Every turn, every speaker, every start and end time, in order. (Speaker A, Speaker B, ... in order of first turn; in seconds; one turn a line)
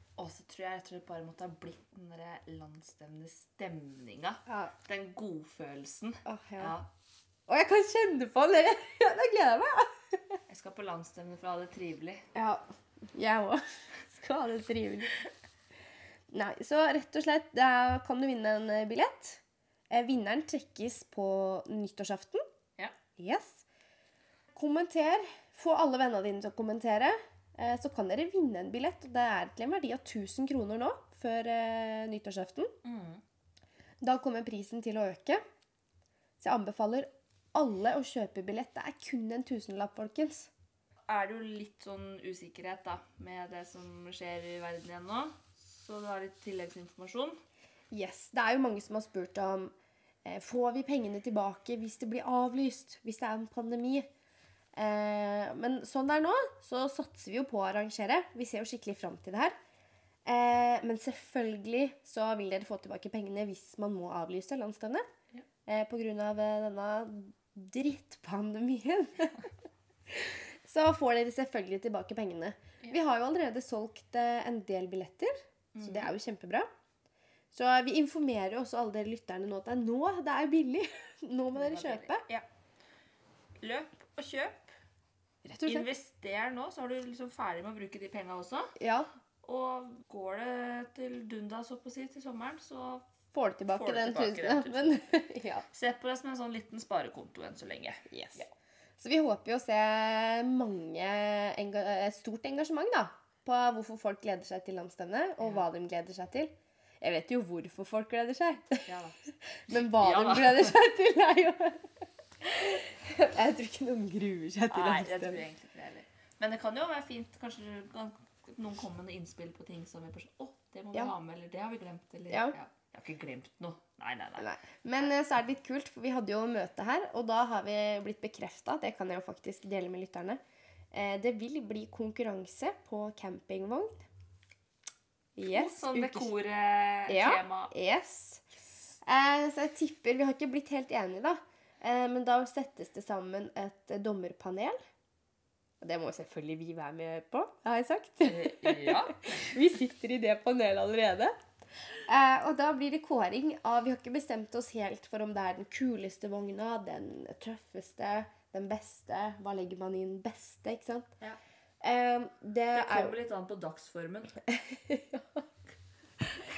Speaker A: 0.2-6.9
Speaker B: 4.5-4.7
Speaker B: 6.3-6.8
Speaker B: 7.5-10.4
Speaker A: 10.5-12.2
Speaker B: 12.3-15.2
Speaker B: 16.3-22.4
Speaker B: 23.2-23.6
Speaker B: 24.6-32.7
Speaker A: 32.8-33.2
Speaker B: 34.0-35.4
Speaker B: 36.4-40.5
Speaker A: 41.1-47.4
Speaker B: 47.9-49.7
Speaker B: 50.2-54.1
Speaker B: 54.8-59.5
Speaker B: 60.3-65.0
Speaker B: 65.7-69.4
Speaker B: 70.1-76.7
Speaker A: 75.8-76.1
Speaker B: 77.5-82.2
Speaker A: 81.5-82.5
Speaker A: 83.6-84.7
Speaker B: 85.4-85.9
Speaker A: 85.6-88.7
Speaker B: 88.8-89.1
Speaker A: 89.4-93.0
Speaker B: 93.3-95.7
Speaker A: 93.7-95.0
Speaker A: 95.7-98.5
Speaker B: 98.1-98.5
Speaker B: 99.0-108.9
Speaker A: 108.9-109.2
Speaker B: 109.7-111.9
Speaker A: 109.7-110.7
Speaker B: 112.4-115.4
Speaker A: 114.7-125.1
Speaker B: 122.3-122.6
Speaker B: 124.4-130.4
Speaker B: 130.9-134.0
Speaker B: 135.4-136.3
Speaker A: 135.5-137.7
Speaker B: 137.1-138.4
Speaker B: 139.1-144.8
Speaker B: 145.8-151.3
Speaker A: 148.2-149.4
Speaker B: 152.1-161.1
Speaker B: 161.8-163.2
Speaker A: 162.7-164.4
Speaker B: 164.5-165.4